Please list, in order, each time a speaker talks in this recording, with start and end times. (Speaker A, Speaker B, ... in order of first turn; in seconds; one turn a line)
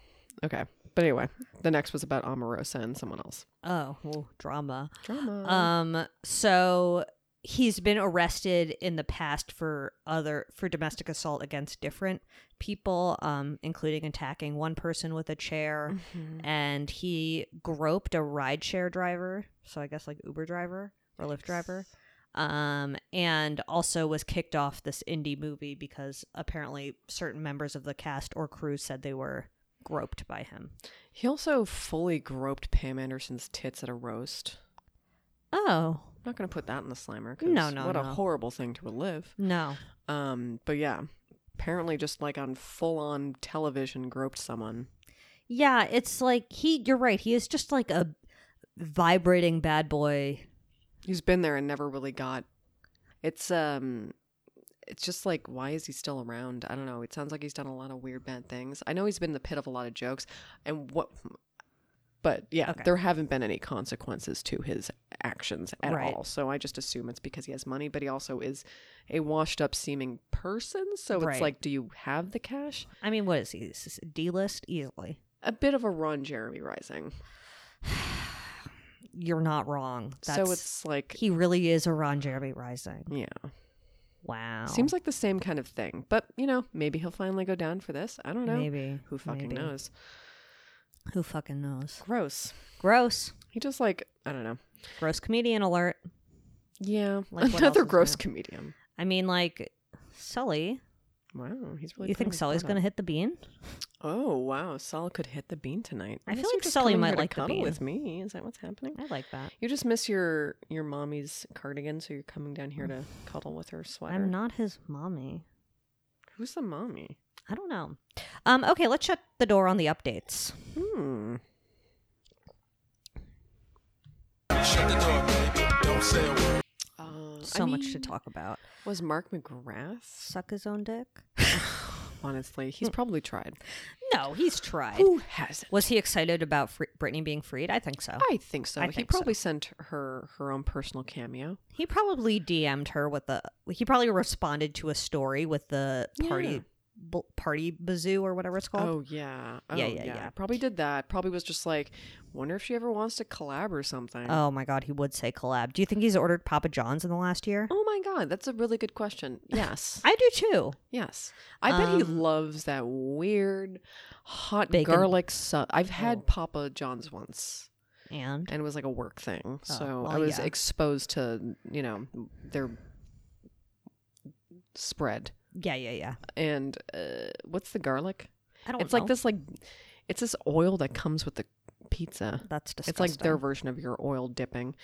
Speaker A: 0.4-3.5
Speaker B: 3.6-30.7
Speaker A: 5.0-5.7
Speaker A: 16.0-16.4
Speaker A: 31.1-34.6
Speaker B: 35.5-36.1
Speaker A: 36.2-39.4
Speaker B: 37.4-38.2
Speaker B: 39.4-39.8
Speaker A: 40.1-44.9
Speaker B: 45.5-48.1
Speaker B: 48.8-50.5
Speaker A: 51.0-52.5
Speaker A: 53.2-54.1
Speaker A: 54.9-61.4
Speaker A: 62.2-72.9
Speaker B: 65.8-66.2
Speaker B: 71.2-71.5
Speaker B: 73.0-75.2
Speaker A: 75.4-77.2
Speaker B: 77.8-78.4
Speaker B: 79.1-83.1
Speaker A: 80.2-81.2
Speaker A: 83.1-83.5
Speaker B: 84.2-84.9
Speaker A: 84.7-89.9
Speaker B: 88.5-89.7
Speaker B: 91.1-92.0
Speaker A: 92.0-92.6
Speaker B: 92.8-93.3
Speaker A: 93.5-94.6
Speaker B: 95.0-96.0
Speaker A: 96.8-98.7
Speaker B: 97.3-98.2
Speaker B: 99.0-100.8
Speaker A: 101.3-102.8
Speaker B: 102.0-103.4
Speaker A: 104.0-109.0
Speaker B: 106.3-107.8
Speaker B: 109.0-109.5
Speaker A: 109.6-114.3
Speaker B: 114.1-115.4
Speaker A: 116.3-117.2
Speaker B: 117.5-120.7
Speaker A: 120.8-121.4
Speaker C: 124.6-126.6
Speaker A: 127.0-128.1
Speaker B: 127.4-128.6
Speaker A: 128.8-130.3
Speaker B: 130.2-131.7
Speaker A: 131.5-133.6
Speaker B: 134.0-135.1
Speaker A: 134.9-135.9
Speaker B: 135.7-138.3
Speaker A: 138.2-141.6
Speaker B: 138.8-139.3
Speaker B: 141.8-148.9
Speaker A: 146.2-146.6
Speaker A: 148.8-154.4
Speaker B: 149.7-150.3
Speaker B: 154.3-157.7
Speaker A: 157.7-160.1
Speaker B: 160.0-160.8
Speaker A: 160.9-167.7
Speaker B: 161.7-162.2
Speaker B: 164.7-165.1
Speaker B: 168.1-168.5
Speaker A: 168.5-172.8
Speaker B: 169.7-170.5
Speaker A: 174.7-175.3
Speaker B: 175.6-176.2
Speaker A: 176.3-184.8
Speaker B: 178.7-179.1
Speaker B: 182.5-183.4